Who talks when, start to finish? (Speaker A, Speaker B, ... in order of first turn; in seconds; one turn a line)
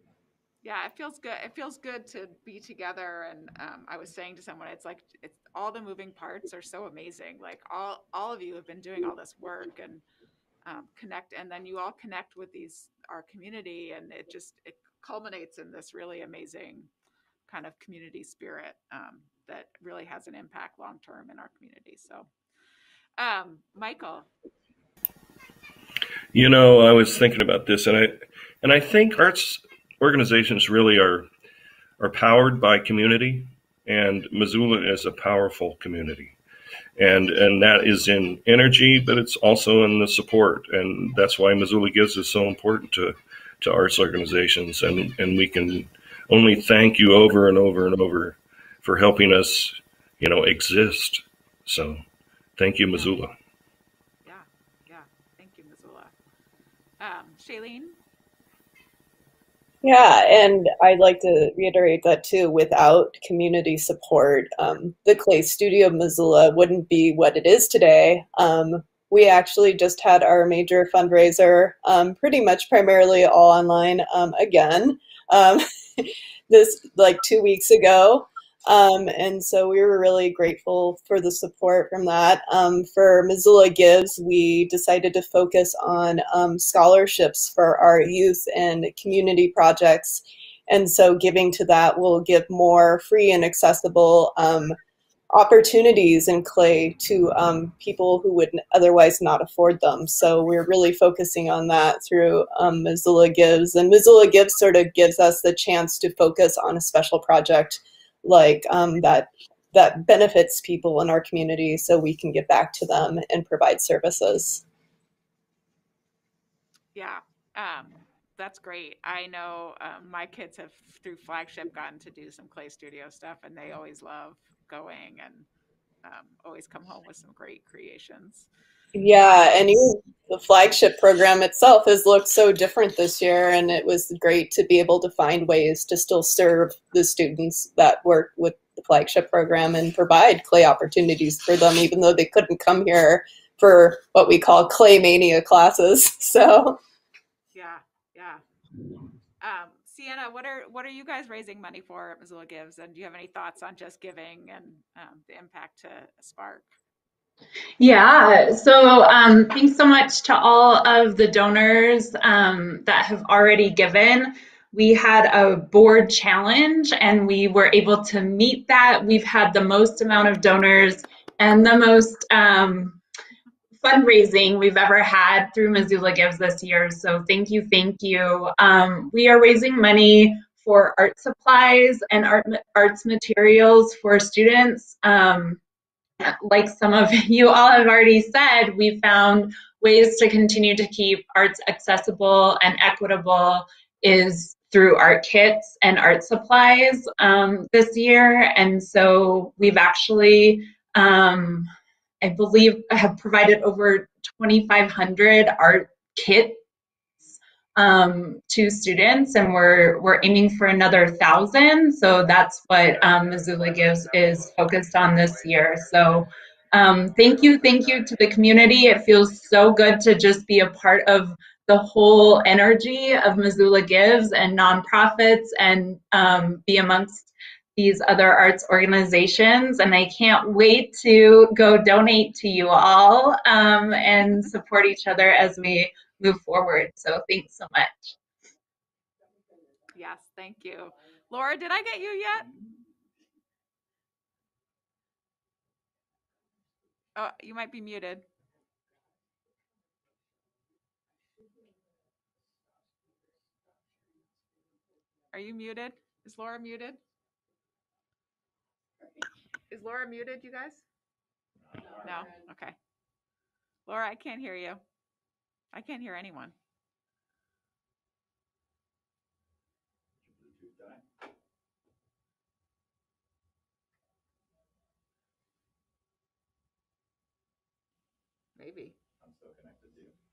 Speaker A: 0.6-10.0
Speaker A: 10.6-16.9
Speaker A: 17.5-22.3
Speaker A: 23.2-24.3
Speaker B: 26.3-31.3
Speaker B: 32.0-36.4
Speaker B: 37.0-52.0
Speaker B: 52.6-53.3
Speaker A: 54.2-56.1
Speaker A: 57.0-58.0
Speaker C: 59.8-94.8
Speaker C: 95.3-114.6
Speaker A: 117.0-125.5
Speaker A: 126.0-128.5
Speaker C: 128.9-146.8
Speaker A: 147.5-148.4
Speaker A: 149.4-156.7
Speaker D: 157.8-173.0
Speaker D: 173.8-185.6
Speaker D: 186.2-201.7
Speaker D: 202.2-206.6
Speaker D: 207.2-238.1
Speaker A: 239.9-242.5
Speaker A: 247.1-248.2
Speaker A: 255.3-257.0
Speaker A: 259.7-260.8
Speaker E: 261.7-262.3
Speaker A: 262.0-262.8
Speaker A: 263.9-264.8
Speaker A: 265.7-266.5
Speaker E: 270.2-271.1
Speaker A: 278.6-278.9
Speaker E: 279.2-280.1